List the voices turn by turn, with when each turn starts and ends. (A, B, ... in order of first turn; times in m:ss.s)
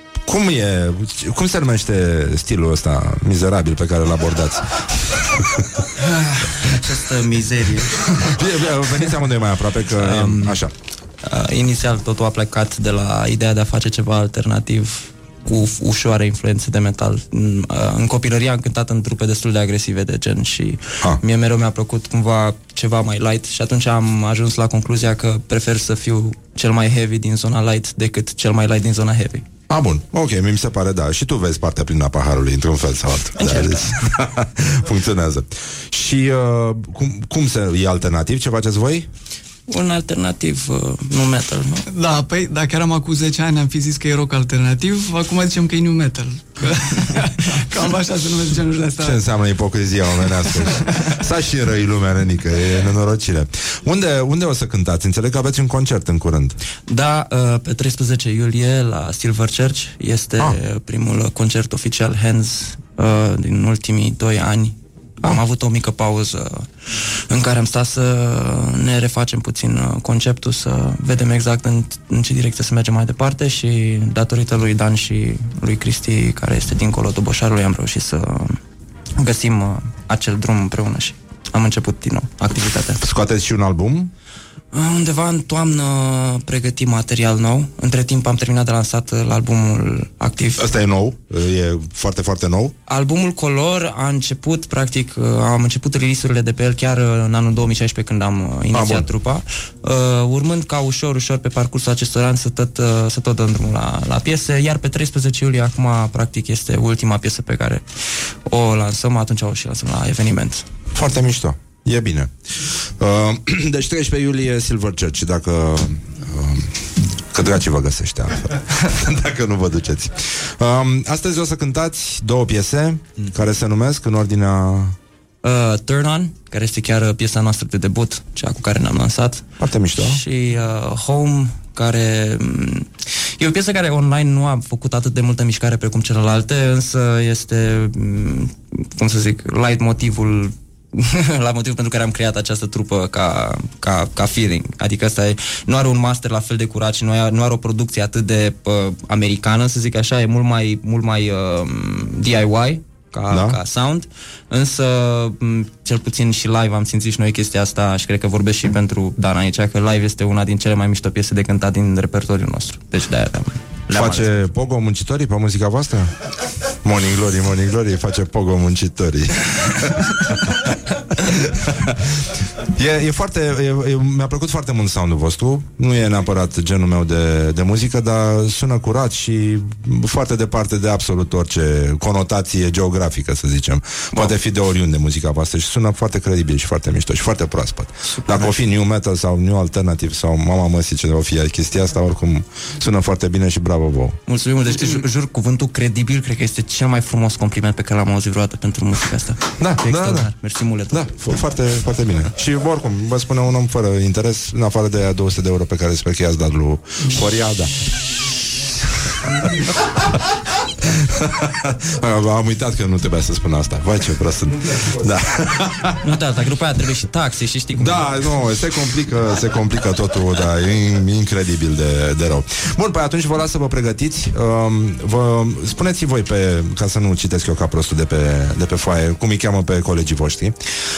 0:00.3-0:05.6 A
0:06.2-0:08.0 B
0:08.1-0:10.7 A
0:10.0-0:10.6 B
0:11.2-0:29.4 B
0:29.7-0:39.1 A
0:39.7-0:41.8 B
0:41.9-0:49.2 C
0:49.0-0:56.6 A
0:50.3-0:50.9 C
0:56.9-1:18.6 B
1:19.2-1:23.0 B
1:23.0-1:24.1 A
1:24.7-1:30.7 B
1:30.6-1:32.8 A
1:32.9-1:47.8 B
1:38.7-1:39.1 A
1:48.5-1:50.7 B
1:50.9-2:05.0 A
2:05.4-2:44.5 B
2:09.6-2:10.2 A
2:33.3-2:33.6 A
2:43.9-2:46.1 A
2:46.8-3:14.2 A
3:08.2-3:08.5 B
3:14.3-3:21.4 B
3:19.6-3:20.3 A
3:20.9-3:27.7 A
3:30.3-3:36.0 A
3:36.0-3:38.2 B
3:37.8-3:50.6 A